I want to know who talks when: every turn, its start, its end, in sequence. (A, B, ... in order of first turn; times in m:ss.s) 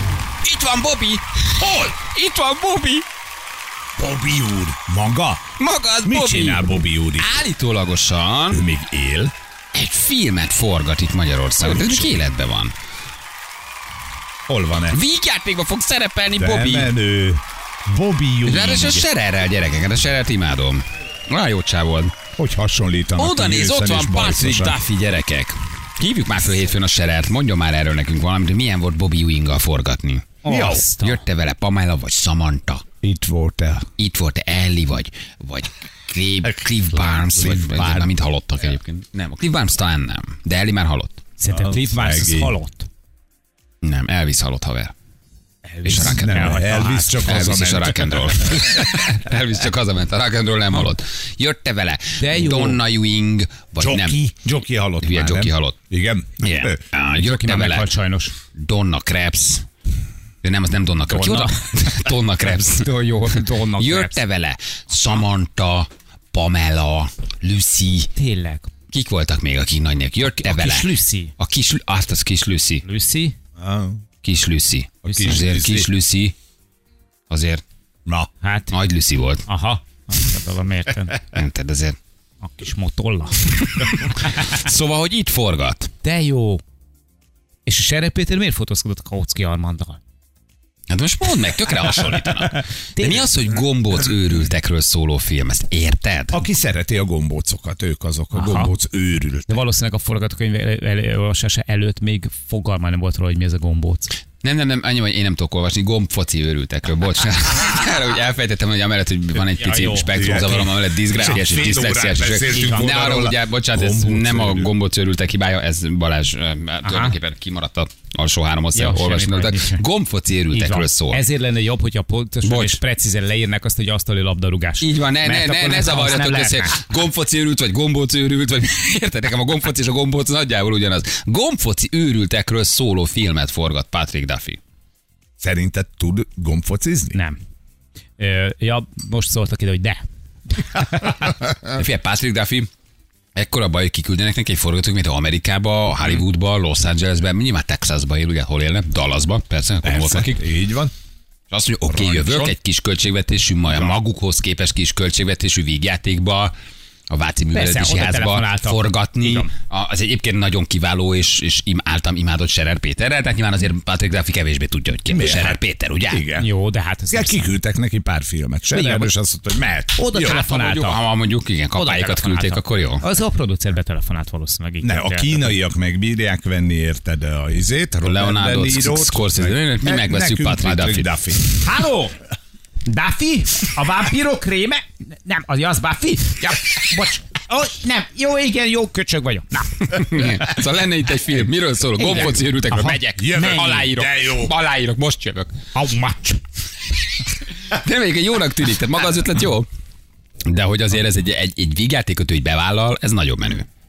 0:00.4-0:03.0 A
0:04.0-0:05.5 B
0:05.6-0:06.6 A
0:06.0-0:07.4 B
0:07.2-0:08.6 A
0:08.5-0:09.3 B
0:09.7-0:12.7 A
0:11.6-0:12.1 B
0:14.5-0:15.0 B
0:14.9-0:16.9 A
0:16.4-0:19.0 B
0:18.4-0:22.1 A
0:22.4-0:24.8 B
0:23.2-0:32.8 A
0:30.4-0:31.2 C
0:30.4-0:30.8 B
0:33.0-0:33.9 B
0:34.0-0:41.2 A
0:36.9-0:38.1 B
0:41.4-0:42.9 C
0:41.5-0:42.5 B
0:43.8-0:44.9 A
0:45.6-0:47.2 C
0:45.8-0:46.5 A
0:46.0-0:48.8 B
0:47.2-0:54.2 A
0:52.2-0:52.8 C
0:53.8-0:56.8 B
0:55.0-0:55.7 A
0:56.4-0:57.9 A
0:57.2-0:58.3 C
0:58.5-0:59.6 A
1:00.4-1:08.1 A
1:01.1-1:02.0 C
1:02.8-1:04.2 C
1:08.2-1:08.7 C
1:08.9-1:12.8 A
1:10.2-1:11.3 C
1:12.8-1:13.3 C
1:13.6-1:14.0 B
1:14.2-1:16.3 A
1:15.0-1:15.9 B
1:17.3-1:17.6 A
1:18.4-1:18.7 C
1:18.7-1:19.4 A
1:19.5-1:21.1 C
1:21.3-1:22.0 A
1:22.4-1:23.5 C
1:23.6-1:25.9 A
1:26.0-1:26.6 C
1:27.6-1:30.0 C
1:30.9-1:36.4 A
1:32.5-1:33.3 C
1:36.3-1:39.6 B
1:38.3-1:38.7 C
1:39.5-1:44.1 C
1:44.4-2:01.2 A
1:49.6-1:50.6 C
1:50.1-1:54.7 B
1:52.5-1:53.0 C
1:56.8-1:57.1 C
1:58.7-1:59.8 C
2:00.5-2:06.9 C
2:02.4-2:02.8 A
2:04.8-2:14.6 A
2:15.4-2:17.2 B
2:18.2-2:20.0 C
2:20.6-2:21.2 C
2:21.7-2:22.7 A
2:23.3-2:30.4 A
2:29.8-2:30.9 B
2:31.5-2:36.5 A
2:31.9-2:32.5 B
2:37.1-2:46.2 A
2:37.5-2:39.5 C
2:45.1-2:46.5 B
2:46.4-2:47.5 C
2:47.1-2:50.4 B
2:48.7-2:49.1 C
2:50.0-2:51.0 C
2:50.2-2:53.0 A
2:51.7-2:55.5 C
2:54.8-3:01.4 B
2:58.0-3:01.2 A
3:01.6-3:02.2 C
3:02.8-3:10.0 C
3:09.9-3:15.5 A
3:12.0-3:13.9 C
3:13.1-3:14.5 B
3:15.7-3:16.4 C
3:17.7-3:19.7 A
3:20.4-3:23.6 A